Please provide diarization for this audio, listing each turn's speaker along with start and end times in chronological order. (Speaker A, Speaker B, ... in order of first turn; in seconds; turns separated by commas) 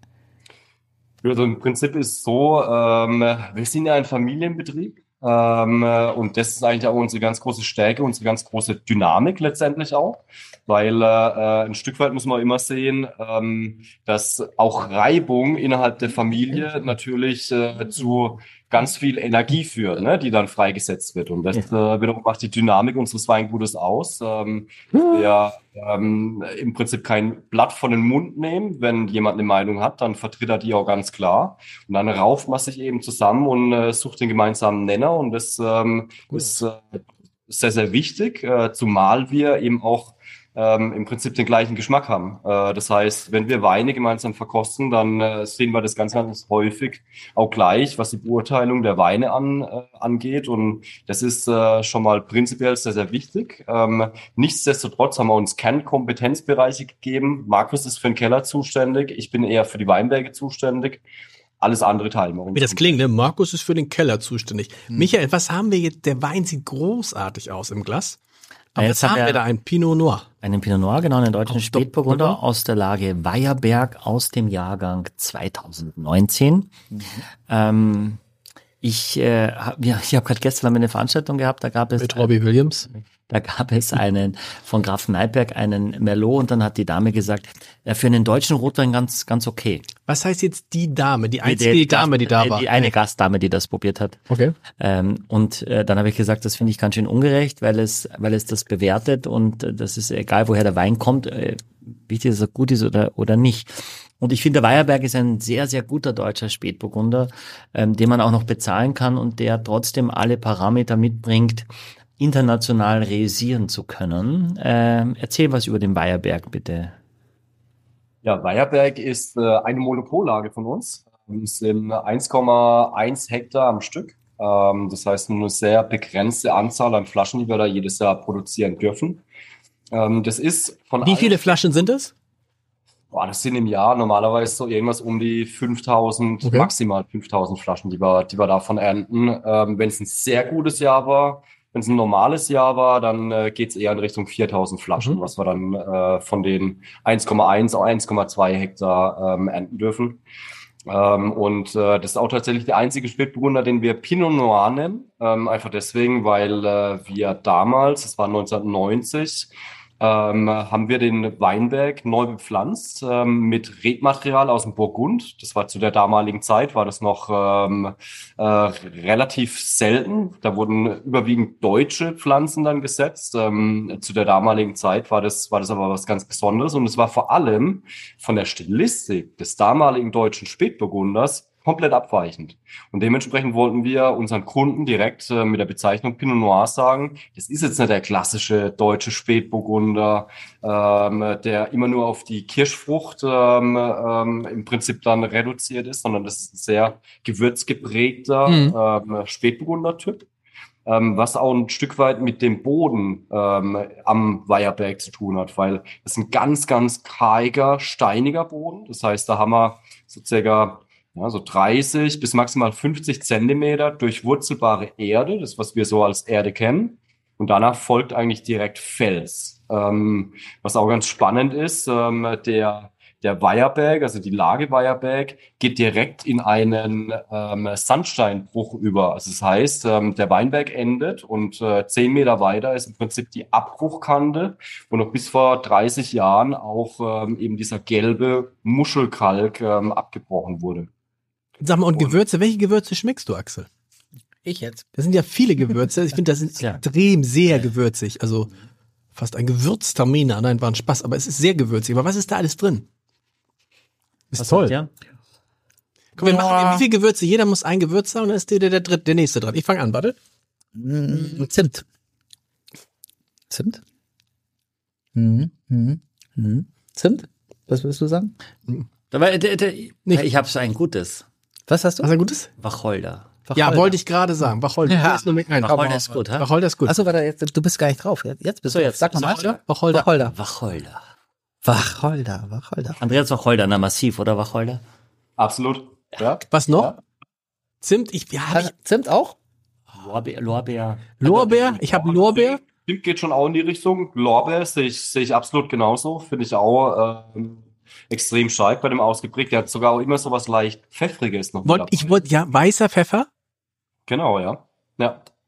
Speaker A: 1.2-61.0, Speaker B: 24.9-25.2, Speaker B: 36.3-36.6, Speaker A: 61.6-63.0, Speaker B: 62.5-68.2, Speaker B: 68.7-70.3, Speaker C: 68.8-69.4, Speaker C: 70.4-76.8, Speaker B: 71.5-72.4, Speaker D: 76.9-77.2, Speaker C: 77.5-78.2, Speaker C: 78.8-82.3, Speaker B: 82.0-82.9, Speaker C: 82.9-89.9, Speaker B: 90.0-92.9, Speaker C: 91.4-94.2, Speaker B: 94.3-94.5, Speaker C: 94.8-111.7, Speaker C: 112.2-116.9, Speaker A: 118.2-129.2, Speaker A: 129.9-131.6, Speaker B: 131.0-132.1, Speaker A: 133.1-150.2, Speaker B: 136.4-136.7, Speaker A: 150.9-200.2, Speaker B: 198.4-198.8, Speaker A: 200.8-240.9, Speaker B: 241.6-243.7, Speaker A: 241.9-242.2, Speaker D: 244.4-244.9, Speaker B: 244.9-248.5, Speaker B: 249.1-252.9, Speaker B: 254.3-254.8, Speaker C: 254.4-254.9, Speaker B: 256.2-260.1, Speaker D: 256.2-256.8, Speaker D: 260.7-261.8, Speaker D: 263.5-263.8, Speaker D: 265.1-268.3, Speaker C: 269.1-271.2, Speaker D: 271.7-272.1, Speaker B: 272.0-272.5, Speaker C: 272.6-273.3, Speaker D: 273.4-274.0, Speaker B: 273.5-276.9, Speaker D: 274.8-275.4, Speaker C: 275.6-276.5, Speaker D: 276.9-280.3, Speaker C: 278.7-279.6, Speaker B: 279.4-280.1, Speaker C: 280.2-281.0, Speaker D: 281.6-283.0, Speaker C: 283.0-284.8, Speaker A: 285.4-286.4, Speaker B: 286.5-286.9, Speaker B: 287.8-288.7, Speaker D: 288.5-289.4, Speaker C: 289.9-291.8, Speaker B: 291.2-292.6, Speaker A: 291.3-302.2, Speaker B: 301.6-303.3, Speaker A: 304.1-305.2